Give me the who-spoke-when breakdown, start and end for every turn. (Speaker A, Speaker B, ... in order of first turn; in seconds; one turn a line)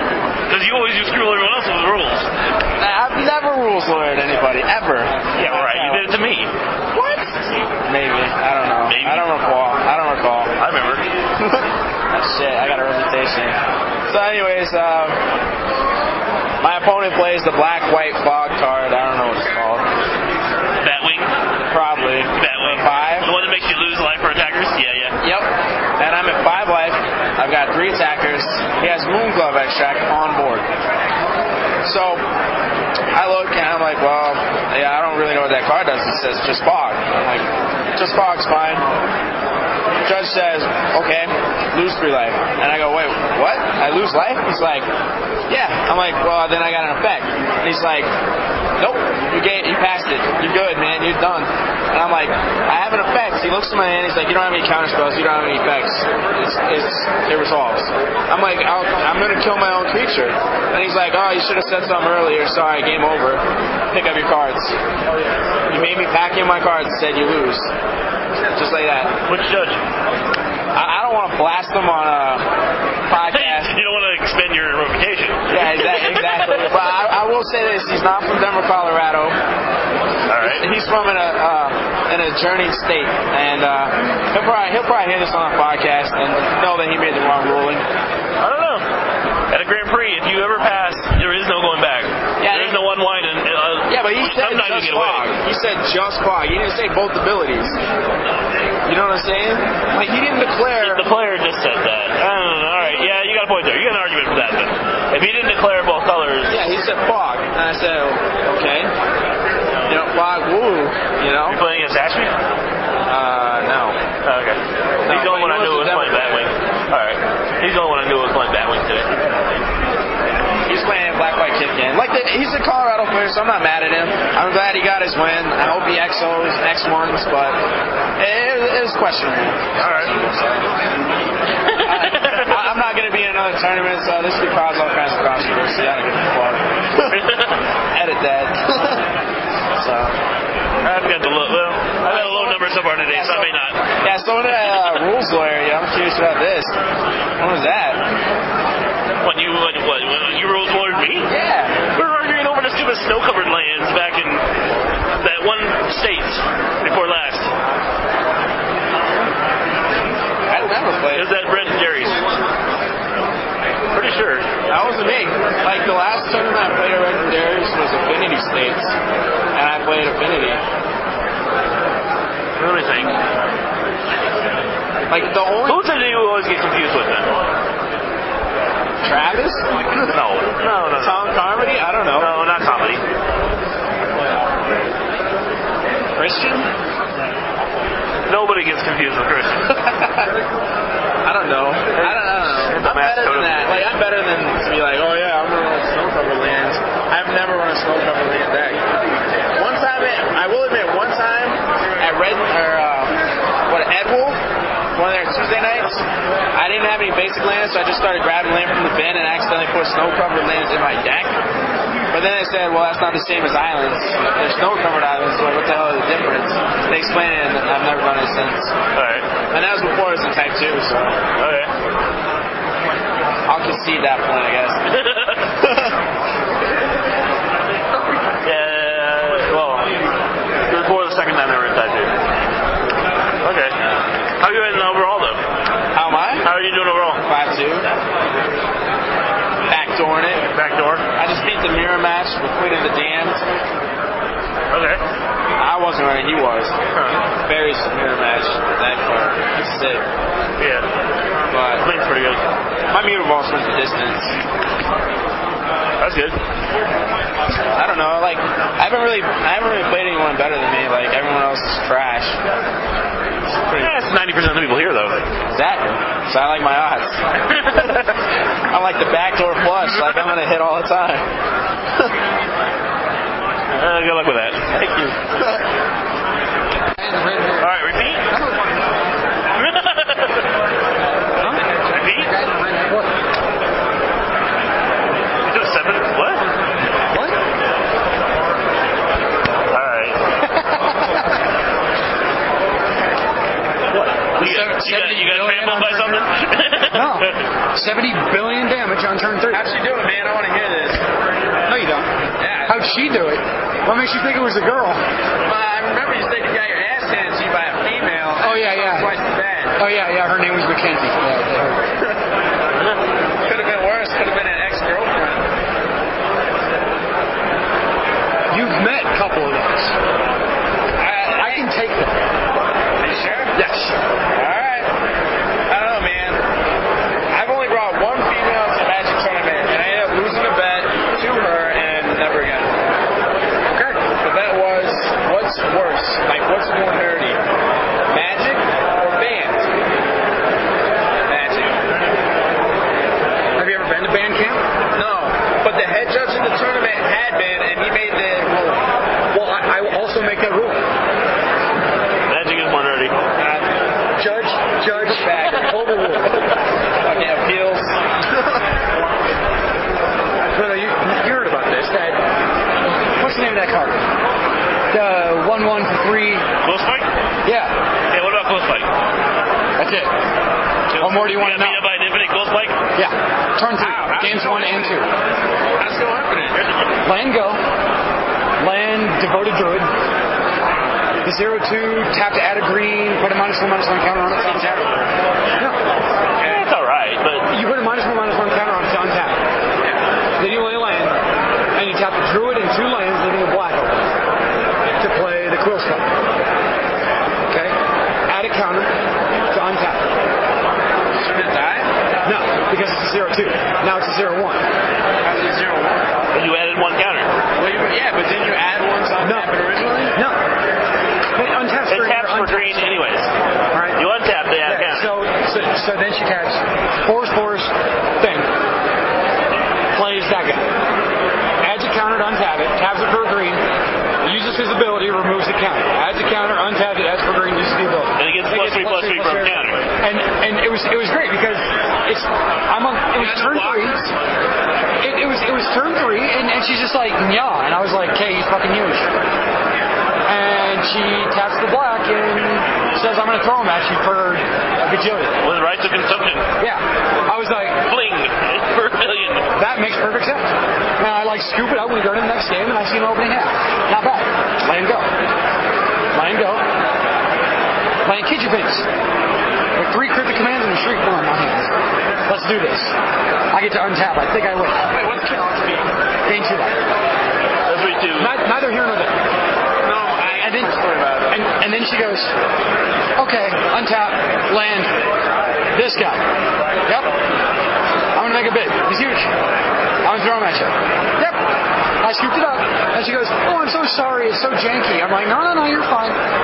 Speaker A: 0.5-2.3
Speaker B: 2.8-6.2
Speaker A: 5.3-6.5
Speaker B: 6.9-7.3
Speaker B: 7.8-10.5
Speaker A: 8.9-9.3
Speaker A: 10.6-11.1
Speaker B: 12.1-15.2
Speaker B: 16.6-19.8
Speaker A: 20.8-21.3
Speaker B: 21.7-23.3
Speaker A: 22.3-25.2
Speaker B: 25.2-30.6
Speaker B: 31.8-32.2
Speaker B: 33.1-38.9
Speaker B: 40.0-44.9
Speaker B: 45.5-48.1
Speaker B: 48.8-64.7
Speaker B: 65.7-67.7
Speaker B: 68.5-69.1
Speaker A: 69.3-69.8
Speaker B: 70.7-72.5
Speaker B: 73.1-73.7
Speaker A: 73.3-76.8
Speaker B: 75.5-79.3
Speaker A: 80.3-80.7
Speaker B: 80.4-87.8
Speaker A: 88.4-88.8
Speaker A: 89.5-95.3
Speaker B: 92.4-92.9
Speaker B: 93.9-97.8
Speaker B: 98.8-101.0
Speaker A: 100.8-106.6
Speaker B: 106.5-108.9
Speaker B: 109.9-111.6
Speaker A: 111.5-112.3
Speaker B: 113.0-114.0
Speaker A: 114.2-119.2
Speaker B: 115.0-116.5
Speaker B: 120.7-127.6
Speaker B: 128.2-130.8
Speaker A: 129.8-130.1
Speaker A: 131.7-132.5
Speaker B: 131.8-136.6
Speaker A: 137.1-137.6
Speaker B: 137.9-139.0
Speaker B: 139.8-140.1
Speaker A: 140.8-143.8
Speaker B: 142.0-146.7
Speaker A: 144.7-145.0
Speaker B: 147.4-148.0
Speaker A: 149.2-151.3
Speaker B: 151.3-151.8
Speaker A: 151.9-154.4
Speaker A: 155.2-157.5
Speaker B: 160.5-161.3
Speaker A: 161.1-162.2
Speaker A: 163.9-164.5
Speaker B: 164.7-168.9
Speaker B: 169.5-170.6
Speaker A: 172.6-173.2
Speaker B: 175.1-175.9
Speaker A: 175.7-177.3
Speaker B: 179.0-180.1
Speaker A: 180.0-181.2
Speaker B: 181.0-182.3
Speaker A: 182.2-183.0
Speaker B: 186.2-186.7
Speaker A: 188.3-189.8
Speaker B: 190.0-190.3
Speaker B: 191.2-198.8
Speaker A: 191.9-193.9
Speaker B: 199.5-203.2
Speaker B: 203.7-204.4
Speaker B: 204.9-211.4
Speaker B: 212.1-218.7
Speaker A: 218.9-219.2
Speaker B: 219.5-221.1
Speaker A: 221.4-221.7
Speaker B: 223.4-224.8
Speaker A: 224.9-225.7
Speaker A: 228.4-229.9
Speaker A: 230.7-232.1
Speaker A: 233.4-233.7
Speaker A: 234.4-235.4
Speaker B: 235.9-236.5
Speaker A: 236.4-237.2
Speaker B: 237.2-237.9
Speaker B: 239.7-240.4
Speaker A: 240.5-241.0
Speaker B: 241.2-243.4
Speaker A: 244.7-245.0
Speaker B: 245.6-246.8
Speaker A: 246.9-247.2
Speaker B: 247.4-250.0
Speaker A: 250.6-250.9
Speaker B: 251.5-251.8
Speaker A: 251.8-252.4
Speaker B: 252.9-254.3
Speaker A: 256.0-256.4
Speaker B: 257.7-262.4
Speaker A: 263.7-265.2
Speaker B: 265.5-267.2
Speaker A: 267.6-268.1
Speaker B: 268.7-271.2
Speaker A: 273.7-274.7
Speaker B: 274.7-275.1
Speaker C: 277.0-277.7
Speaker A: 277.6-278.2
Speaker C: 278.3-278.8
Speaker A: 279.5-280.4
Speaker C: 281.4-283.1
Speaker A: 281.9-282.3
Speaker A: 285.4-286.4
Speaker C: 287.1-287.4
Speaker A: 289.7-290.2
Speaker C: 290.7-291.3
Speaker C: 293.9-296.2
Speaker A: 294.3-297.4
Speaker C: 296.9-299.6
Speaker B: 299.5-301.0
Speaker C: 301.7-302.1
Speaker B: 302.4-302.9
Speaker C: 302.7-305.0
Speaker B: 305.4-309.8
Speaker C: 308.4-309.1
Speaker C: 309.8-311.9
Speaker B: 313.4-315.4
Speaker C: 318.5-319.9
Speaker B: 321.0-321.7
Speaker C: 321.3-322.2
Speaker B: 323.0-323.5
Speaker C: 323.5-323.9
Speaker B: 324.3-324.9
Speaker B: 325.7-326.4
Speaker B: 327.3-332.7
Speaker C: 333.7-334.0
Speaker B: 334.2-337.4
Speaker B: 338.1-339.7
Speaker B: 341.2-341.8
Speaker C: 343.6-344.6
Speaker B: 344.9-348.8
Speaker C: 349.3-350.8
Speaker A: 352.3-353.1
Speaker B: 353.4-353.6
Speaker C: 354.2-356.4
Speaker B: 354.9-355.8
Speaker B: 357.0-357.9
Speaker C: 360.4-362.2
Speaker C: 363.2-364.1
Speaker C: 364.9-366.5
Speaker A: 366.6-367.1
Speaker C: 367.4-367.8
Speaker A: 368.1-368.9
Speaker C: 369.8-370.1
Speaker A: 370.9-372.8
Speaker C: 371.0-371.8
Speaker C: 372.9-375.1
Speaker B: 373.8-375.1
Speaker B: 375.8-376.6
Speaker C: 377.0-377.6
Speaker C: 378.6-379.9
Speaker C: 381.2-384.8
Speaker B: 384.3-385.1
Speaker A: 386.4-387.5
Speaker C: 387.5-389.4
Speaker C: 390.4-391.2
Speaker C: 391.7-394.1
Speaker C: 395.0-396.1
Speaker C: 397.5-397.8
Speaker C: 398.3-398.9
Speaker C: 399.5-400.1
Speaker B: 401.1-401.9
Speaker C: 402.2-404.6
Speaker B: 405.2-406.0
Speaker A: 406.3-407.3
Speaker B: 407.6-410.1
Speaker C: 409.2-409.5
Speaker C: 410.1-410.4
Speaker C: 411.3-413.0
Speaker A: 411.9-413.3
Speaker C: 413.7-414.0
Speaker A: 413.9-415.1
Speaker C: 414.6-418.5
Speaker C: 419.9-420.7
Speaker C: 421.6-423.6
Speaker C: 424.2-434.0
Speaker A: 428.2-429.8
Speaker B: 433.1-434.1
Speaker C: 435.0-439.1
Speaker C: 440.2-445.4
Speaker A: 445.4-446.5
Speaker C: 446.6-447.8
Speaker A: 447.8-449.5
Speaker C: 449.6-455.1
Speaker C: 456.1-456.6
Speaker C: 458.0-458.9
Speaker C: 459.8-461.7
Speaker C: 462.2-462.9
Speaker C: 463.5-464.9
Speaker B: 464.9-465.9
Speaker C: 466.2-466.7
Speaker A: 467.7-468.4
Speaker C: 468.2-469.2
Speaker B: 469.8-471.4
Speaker C: 470.4-470.7
Speaker C: 471.3-472.3
Speaker C: 473.2-474.9
Speaker C: 475.7-476.2
Speaker C: 478.1-479.3
Speaker C: 480.0-481.4
Speaker C: 482.0-486.2